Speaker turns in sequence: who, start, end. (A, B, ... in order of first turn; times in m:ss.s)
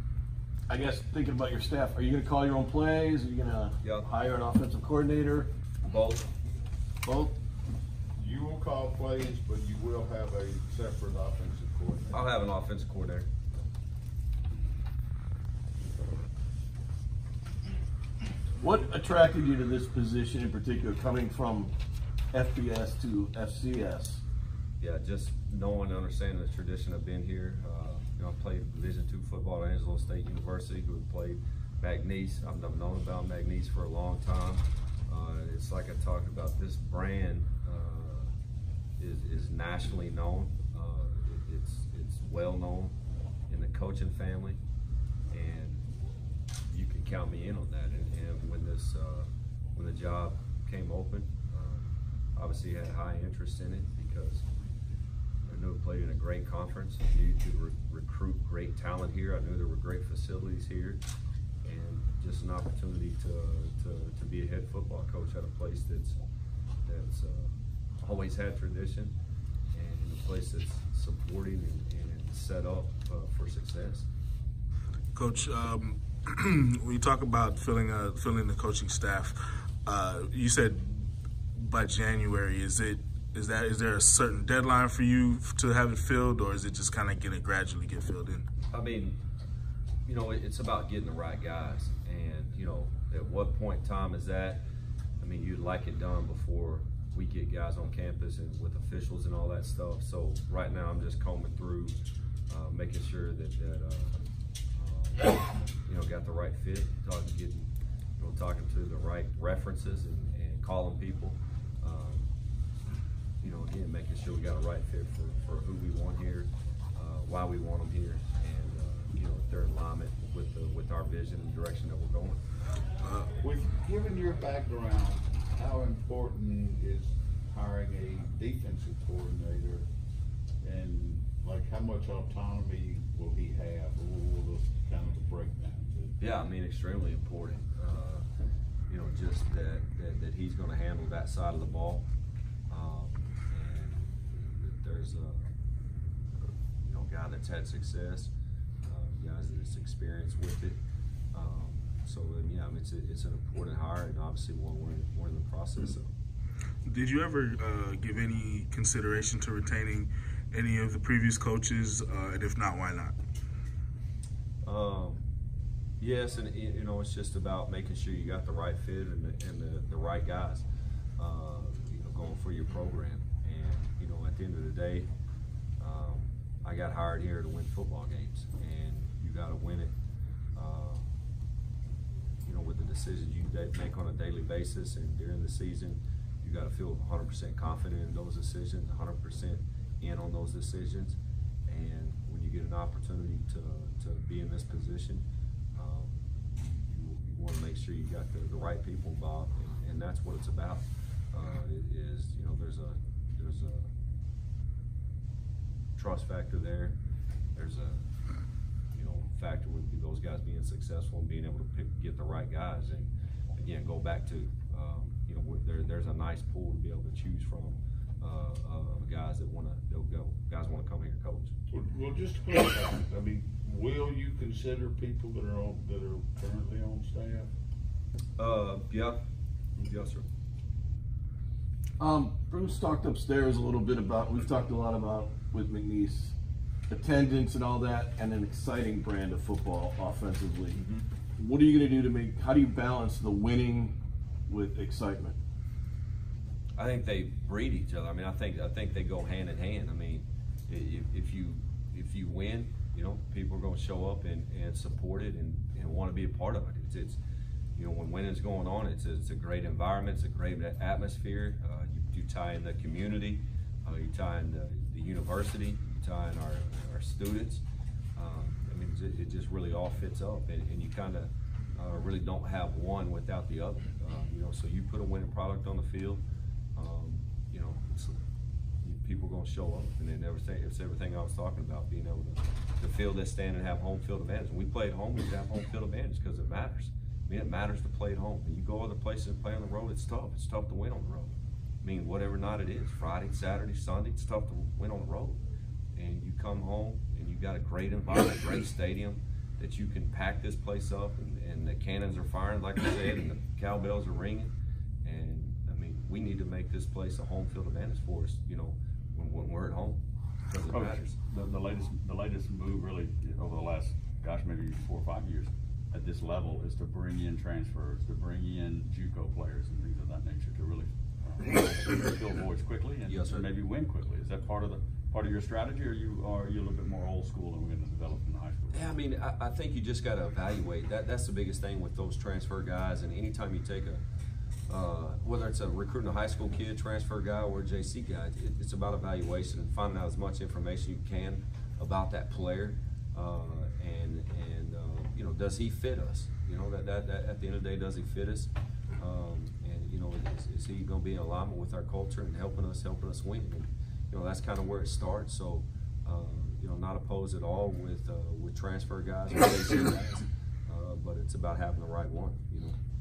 0:00.7-0:05.5 A
0:03.8-0:04.1 B
0:05.8-0:06.3 B
0:07.0-0:07.4 A
0:08.2-0:12.2 C
0:12.1-0:13.3 B
0:18.6-0:21.7 A
0:22.3-0:24.2 A
0:24.8-0:38.3 B
0:39.0-0:42.9 B
0:43.5-0:44.6 B
0:45.3-0:45.8 B
0:46.6-0:54.5 B
0:55.4-1:01.0 B
1:01.6-1:06.2 B
1:06.8-1:09.1 B
1:09.7-1:14.1 B
1:15.1-1:28.4 D
1:28.7-1:29.2 B
1:30.0-1:34.6 B
1:35.2-1:41.9 B
1:42.5-1:44.2 B
1:44.7-1:52.3 B
1:53.4-2:02.4 B
2:03.0-2:03.3 D
2:03.4-2:09.8 C
2:10.6-2:16.2 C
2:16.2-2:18.2 B
2:18.9-2:22.1 B
2:22.7-2:25.5 B
2:26.4-2:28.3 B
2:28.8-2:30.8 B
2:31.3-2:36.1 B
2:36.8-2:43.2 D
2:44.6-2:45.2 B
2:46.0-2:50.6 B
2:51.2-2:55.1 B
2:55.8-2:59.9 B
3:00.5-3:01.1 B
3:02.4-3:23.9 B
3:26.0-3:27.0 B
3:27.6-3:28.0 B
3:28.9-3:41.5 B
3:41.7-3:47.5 C
3:48.4-3:49.2 B
3:49.8-3:50.2 B
3:52.0-3:56.4 A
3:56.9-4:00.8 A
4:00.8-4:01.0 B
4:01.4-4:05.4 A
4:06.8-4:17.2 B
4:17.8-4:27.6 B
4:28.2-4:36.2 B
4:36.8-4:38.2 B
4:38.8-4:55.4 B
4:55.9-5:04.5 B
5:05.0-5:11.2 B
5:10.6-5:28.9 E
5:23.1-5:23.5 B
5:28.7-5:34.0 B
5:34.7-6:02.8 B